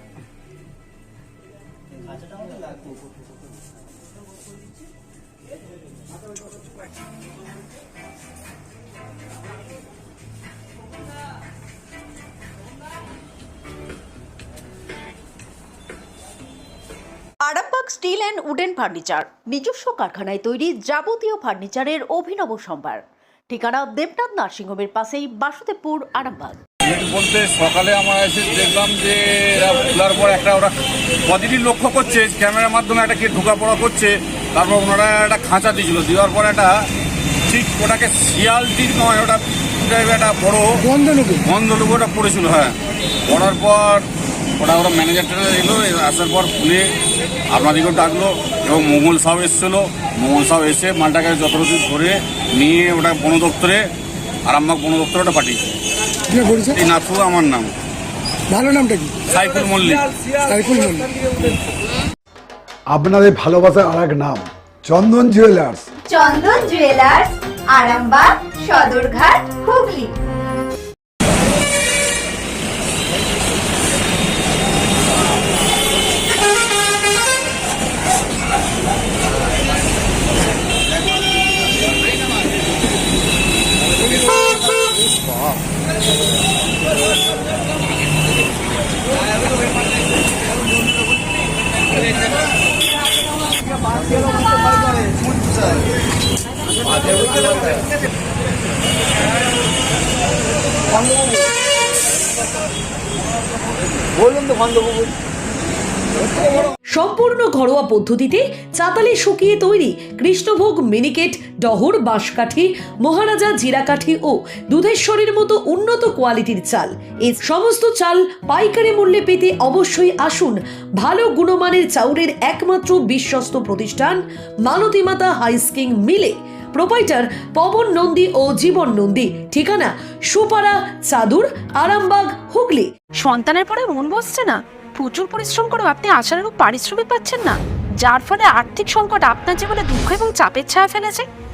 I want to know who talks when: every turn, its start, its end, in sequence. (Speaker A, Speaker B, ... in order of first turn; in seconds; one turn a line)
Speaker A: 17.4-26.6
Speaker B: 26.9-30.8
Speaker B: 31.3-36.8
Speaker B: 37.5-42.8
Speaker C: 40.9-41.3
Speaker B: 43.3-44.0
Speaker B: 44.6-46.9
Speaker B: 47.5-53.8
Speaker B: 54.5-55.6
Speaker C: 56.4-56.7
Speaker B: 56.6-57.7
Speaker C: 58.5-59.1
Speaker B: 59.3-60.0
Speaker C: 60.5-61.1
Speaker D: 62.9-65.8
Speaker E: 66.1-70.1
Speaker F: 106.9-132.9
Speaker G: 133.2-141.2